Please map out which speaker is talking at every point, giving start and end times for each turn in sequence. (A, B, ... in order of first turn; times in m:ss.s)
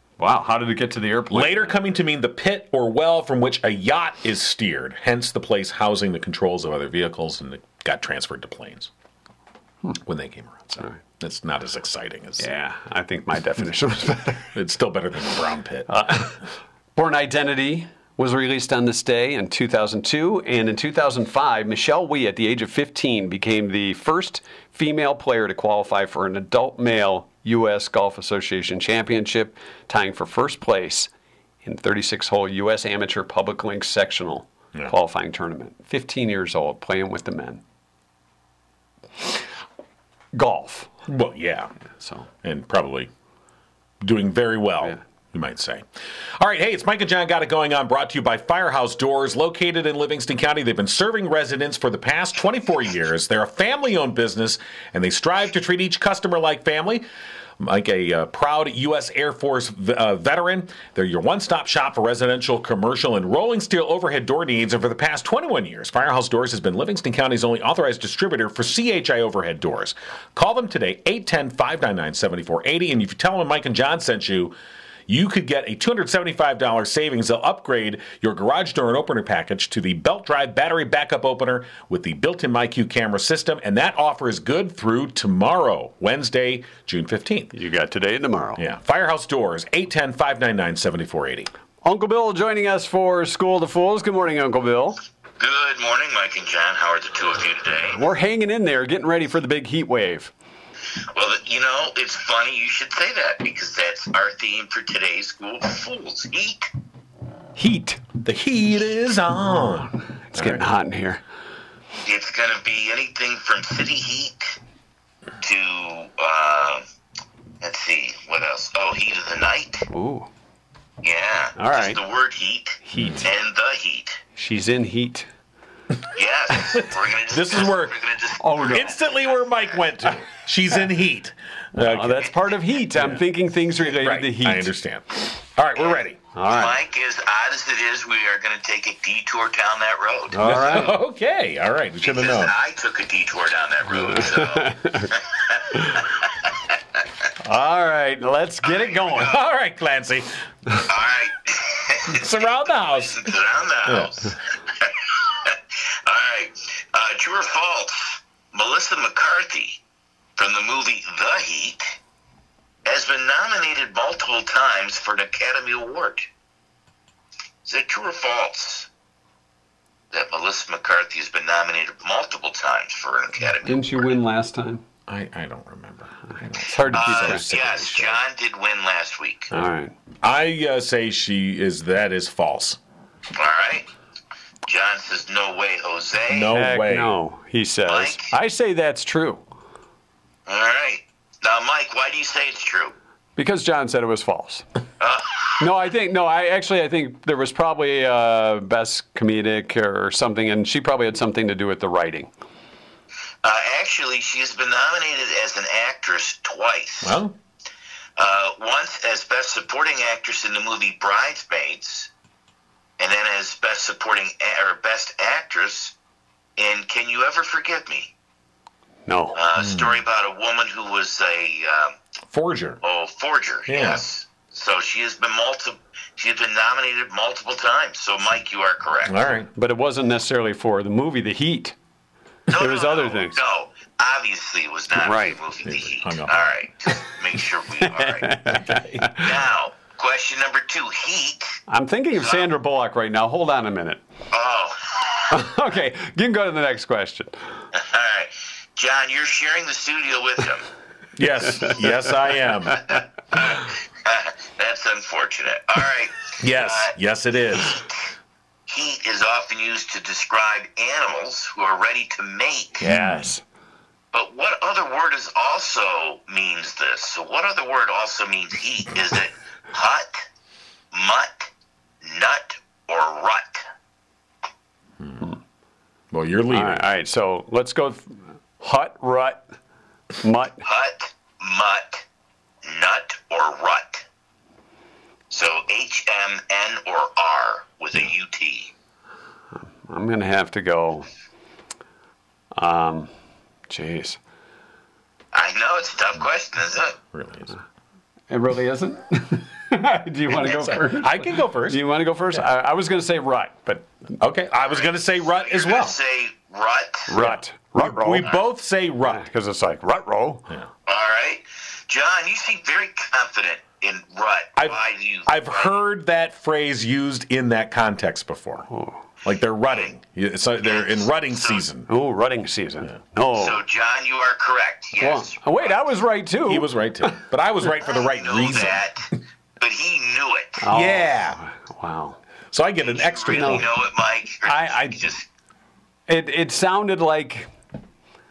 0:00.2-0:01.8 A
0:01.3-0:08.9 B
0:10.0-0:12.5 B
0:12.4-0:14.5 A
0:14.5-0:16.2 B
0:15.9-0:16.4 A
0:17.0-0:31.1 A
0:31.6-0:37.6 A
0:40.3-0:40.9 A
0:41.1-0:41.7 B
0:42.0-0:42.3 A
0:42.4-0:43.1 B
0:44.0-0:45.9 B
0:46.4-0:57.0 B
0:57.6-1:14.6 B
1:15.1-1:27.5 B
1:27.5-1:28.6 A
1:28.6-1:31.5 B
1:31.8-1:35.0 A
1:35.4-1:38.0 C
1:37.9-1:40.3 A
1:41.1-1:46.7 C
1:47.6-1:48.0 A
1:48.2-1:50.6 B
1:50.3-1:51.2 A
1:52.0-1:54.6 C
1:55.4-1:56.8 C
1:57.6-1:59.9 C
1:59.9-2:00.3 A
2:01.0-2:04.2 C
2:01.6-2:02.0 A
2:02.8-2:03.3 A
2:03.0-2:03.2 B
2:04.4-2:05.3 A
2:06.1-2:09.2 C
2:06.7-2:08.0 B
2:08.4-2:09.0 A
2:08.6-2:12.3 B
2:11.8-2:14.7 A
2:13.0-2:13.2 B
2:13.8-2:16.2 B
2:15.8-2:20.4 C
2:16.3-2:16.8 A
2:20.3-2:21.0 A
2:20.4-2:22.5 B
2:22.0-2:26.5 C
2:24.0-2:25.2 A
2:27.4-2:29.4 A
2:28.7-2:29.4 C
2:29.2-2:30.4 B
2:30.9-2:39.8 C
2:32.1-2:34.1 B
2:40.4-2:42.0 C
2:42.9-2:46.3 C
2:47.6-2:48.9 C
2:50.1-2:54.1 C
2:53.6-2:54.8 A
2:55.1-2:58.2 B
2:56.6-2:57.5 A
2:56.9-2:59.5 C
2:59.5-2:59.9 A
3:00.2-3:02.8 B
3:03.3-3:03.9 C
3:04.6-3:06.5 C
3:06.3-3:07.2 B
3:06.5-3:09.4 A
3:07.9-3:08.3 C
3:10.5-3:13.0 C
3:13.4-3:14.7 A
3:15.0-3:15.6 C
3:15.6-3:22.3 A
3:23.4-3:27.2 C
3:27.0-3:27.4 B
3:28.2-3:32.1 C
3:33.0-3:36.0 C
3:36.6-3:38.1 C
3:39.1-3:39.4 A
3:39.3-3:42.0 C
3:39.6-3:40.0 B
3:42.3-3:42.8 B
3:42.8-3:49.2 C
3:43.7-3:44.0 B
3:49.0-3:49.5 B
3:49.6-3:51.8 A
3:52.5-3:58.3 C
3:52.5-3:53.4 A
3:55.0-3:55.4 A
3:55.6-3:56.5 B
3:57.8-3:59.3 A
3:58.7-3:59.1 B
3:59.1-4:01.6 C
4:01.7-4:04.0 A
4:02.2-4:02.5 C
4:04.3-4:05.4 C
4:05.3-4:07.4 A
4:07.7-4:10.6 C
4:11.2-4:13.0 B
4:12.9-4:17.0 C
4:16.4-4:17.8 B
4:18.7-4:22.8 C
4:22.8-4:23.4 A
4:22.9-4:23.2 B
4:24.1-4:30.3 C
4:30.9-4:31.5 C
4:32.0-4:33.6 C
4:36.1-4:36.9 B
4:36.5-4:39.4 A
4:40.2-4:40.6 A
4:40.6-4:42.1 C
4:42.6-4:44.0 C
4:45.3-4:48.7 C
4:49.6-4:51.1 A
4:52.6-4:53.1 A
4:53.7-4:54.2 A
4:55.3-4:57.0 C
4:57.1-4:57.5 B
4:58.3-5:04.1 A
5:00.3-5:01.8 B
5:04.2-5:06.0 B
5:04.6-5:07.1 C
5:07.1-5:08.3 A
5:07.2-5:09.2 B
5:09.1-5:10.5 A
5:10.9-5:15.8 C
5:14.6-5:18.7 B
5:18.7-5:19.0 A
5:19.2-5:21.9 B
5:20.6-5:21.6 C
5:21.9-5:23.6 A
5:23.4-5:25.8 C
5:25.0-5:27.2 A
5:26.5-5:28.8 B
5:28.0-5:30.7 C
5:30.6-5:32.2 A
5:30.7-5:31.4 B
5:32.5-5:33.7 B
5:32.8-5:35.3 C
5:33.3-5:33.7 A
5:34.4-5:35.0 A
5:36.1-5:37.5 A